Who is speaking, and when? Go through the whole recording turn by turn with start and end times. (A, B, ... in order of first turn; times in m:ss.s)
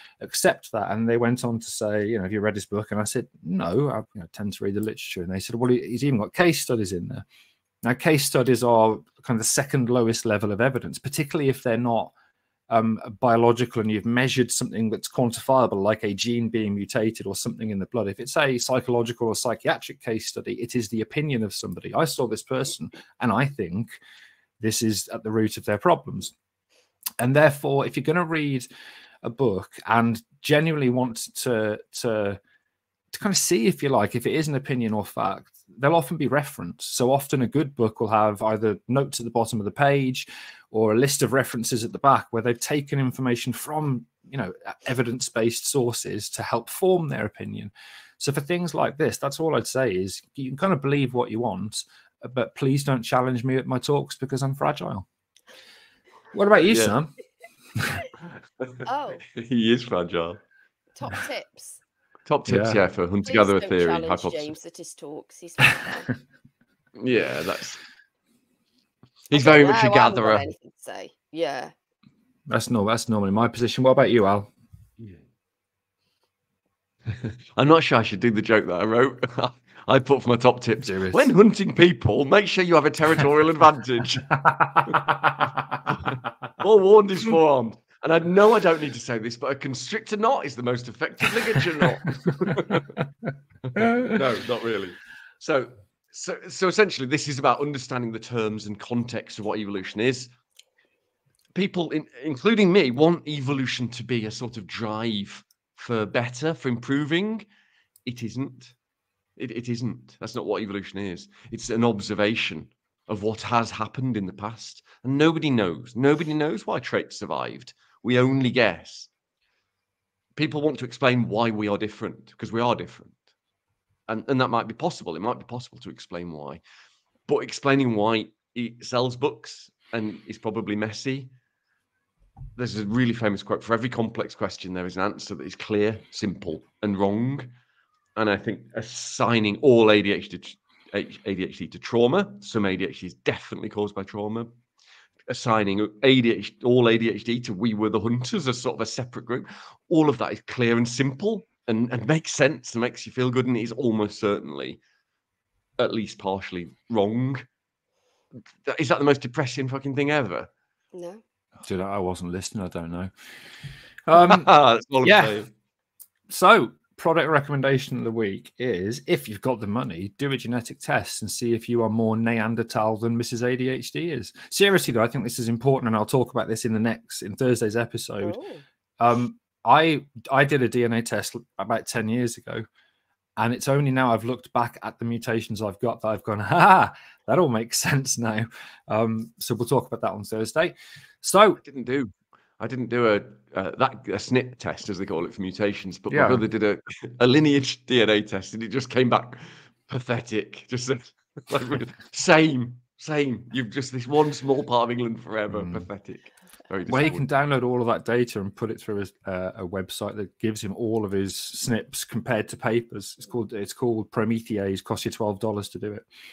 0:00.2-0:07.2 A
0:07.8-0:12.1 A
0:12.7-0:23.9 A
0:24.6-0:26.3 A
0:27.2-0:28.7 A
0:29.2-0:32.4 A
0:33.1-0:55.0 A
0:56.3-0:57.1 A
0:56.7-0:56.9 B
0:57.8-0:58.0 A
0:58.6-1:00.4 B
0:58.8-0:59.2 C
1:00.9-1:01.8 C
1:02.3-1:04.5 B
1:02.5-1:02.8 A
1:03.2-1:06.1 C
1:07.0-1:07.8 B
1:09.3-1:10.4 B
1:09.3-1:11.7 C
1:12.5-1:14.5 A
1:17.1-1:25.0 B
1:20.8-1:21.3 A
1:24.3-1:26.1 A
1:25.9-1:33.0 B
1:33.6-1:40.3 B
1:33.8-1:34.2 A
1:41.5-1:47.4 B
1:48.0-1:48.7 B
1:49.4-1:59.1 B
2:00.4-2:03.2 B
2:04.1-2:06.6 B
2:07.3-2:11.3 B
2:12.6-2:17.5 B
2:18.2-2:24.5 B
2:25.3-2:34.8 B
2:35.8-2:37.4 B
2:38.6-2:40.5 B
2:40.9-2:41.2 C
2:41.6-2:43.1 A
2:44.1-2:44.5 A
2:44.1-2:45.5 B
2:45.0-2:45.4 A
2:46.3-2:58.4 A
2:58.2-2:58.6 C
2:59.0-3:02.6 A
3:03.4-3:11.6 A
3:11.6-3:27.2 B
3:16.1-3:16.4 A
3:25.5-3:25.9 A
3:26.9-3:36.0 A